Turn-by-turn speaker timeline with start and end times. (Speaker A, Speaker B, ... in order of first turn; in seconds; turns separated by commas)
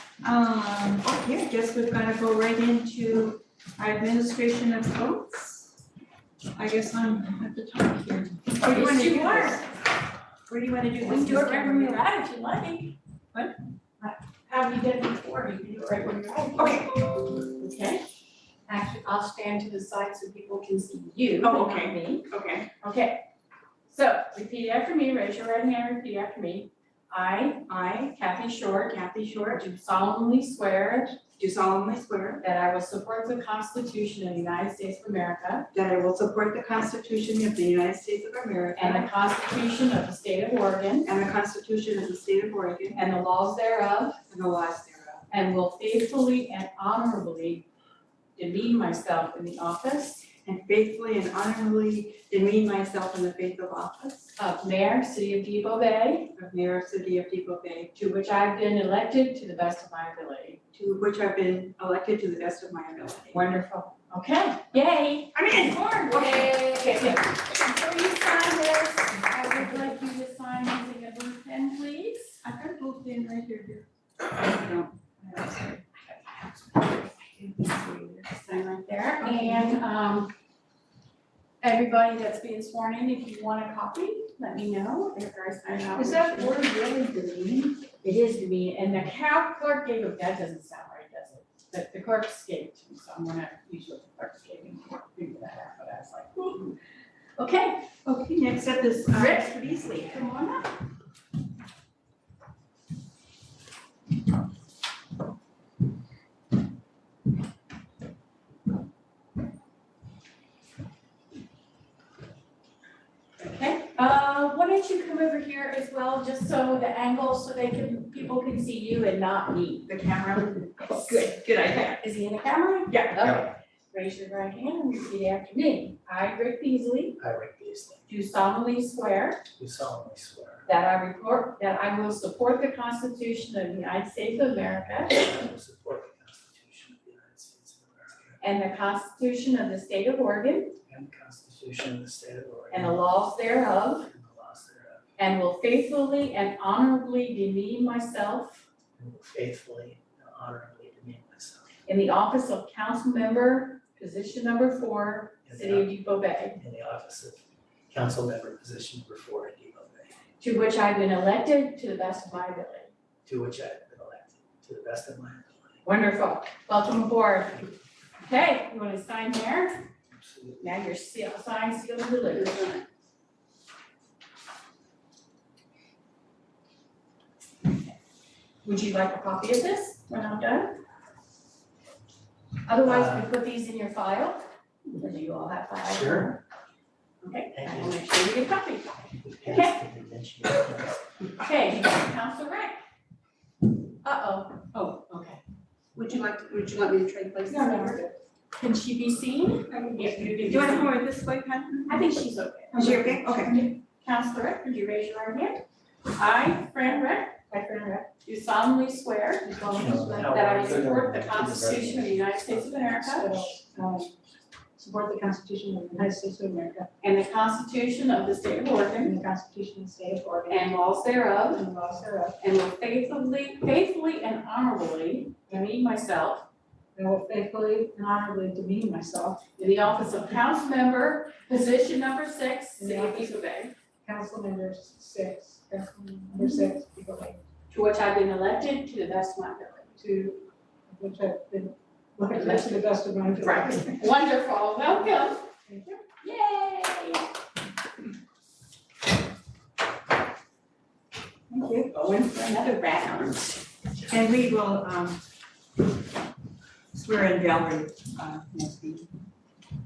Speaker A: 0.2-5.7, Speaker A: 6.5-9.7, Speaker B: 8.6-9.7, Speaker A: 10.5-12.0, Speaker B: 11.0-13.0, Speaker B: 14.0-18.0, Speaker A: 16.6-17.1, Speaker B: 18.7-22.3, Speaker A: 21.4-22.7, Speaker B: 22.8-23.2, Speaker B: 23.9-31.2, Speaker A: 27.7-28.2, Speaker A: 28.9-29.6, Speaker A: 31.3-32.4, Speaker B: 32.4-35.7, Speaker A: 35.7-39.1, Speaker B: 38.8-41.1, Speaker A: 41.0-43.0, Speaker B: 43.0-44.2, Speaker A: 44.3-45.2, Speaker B: 45.3-47.7, Speaker B: 48.4-50.3, Speaker A: 50.4-54.4, Speaker B: 54.4-56.3, Speaker A: 56.3-57.9, Speaker B: 57.9-60.6, Speaker A: 60.7-63.4, Speaker B: 63.3-72.4, Speaker A: 65.3-67.2, Speaker A: 72.4-73.8, Speaker A: 74.4-75.8, Speaker B: 75.3-76.8, Speaker A: 77.3-78.2, Speaker B: 78.2-80.3, Speaker A: 79.2-79.8, Speaker B: 81.6-86.6, Speaker C: 86.0-87.8, Speaker B: 88.0-96.8, Speaker B: 97.4-97.9, Speaker A: 98.0-100.3, Speaker B: 99.1-100.8, Speaker B: 113.4-119.9, Speaker A: 119.9-122.0, Speaker B: 120.8-127.2, Speaker A: 122.9-123.5, Speaker D: 127.2-128.1, Speaker B: 128.1-129.4, Speaker D: 129.6-130.7, Speaker B: 130.7-135.2, Speaker D: 135.1-138.4, Speaker B: 138.4-140.8, Speaker D: 140.9-143.0, Speaker B: 142.7-144.1, Speaker D: 144.0-145.1, Speaker B: 145.2-148.7, Speaker D: 149.0-151.8, Speaker B: 151.9-156.6, Speaker D: 155.5-155.9, Speaker D: 156.6-160.2, Speaker B: 160.4-162.9, Speaker D: 163.2-165.8, Speaker B: 165.8-167.7, Speaker B: 168.2-169.9, Speaker D: 170.1-170.7, Speaker B: 170.6-172.7, Speaker A: 172.4-172.8, Speaker B: 178.6-180.8, Speaker B: 182.7-186.4, Speaker D: 182.8-183.3, Speaker D: 185.9-186.4, Speaker B: 187.2-189.8, Speaker D: 187.5-188.0, Speaker D: 189.1-191.0, Speaker B: 191.4-192.8, Speaker B: 194.0-195.4, Speaker A: 195.9-198.0, Speaker C: 197.5-198.1, Speaker B: 198.6-200.9, Speaker C: 199.7-200.4, Speaker A: 200.4-202.0, Speaker B: 201.9-207.4, Speaker A: 202.7-203.6, Speaker C: 207.5-208.1, Speaker B: 208.2-213.5, Speaker C: 209.4-210.4, Speaker D: 209.8-212.1, Speaker C: 212.9-214.2, Speaker C: 214.8-216.9, Speaker B: 217.0-219.2, Speaker C: 219.0-220.7, Speaker B: 220.5-221.6, Speaker C: 221.5-222.4, Speaker B: 222.4-226.5, Speaker C: 226.9-229.4, Speaker B: 229.6-233.7, Speaker C: 232.8-233.3, Speaker C: 234.0-237.4, Speaker B: 237.7-240.0, Speaker C: 240.0-244.1, Speaker B: 242.3-242.8, Speaker B: 243.4-245.5, Speaker C: 245.7-246.0, Speaker B: 246.2-247.3, Speaker A: 251.5-251.9, Speaker B: 251.8-253.7, Speaker A: 254.1-255.2, Speaker A: 256.9-259.1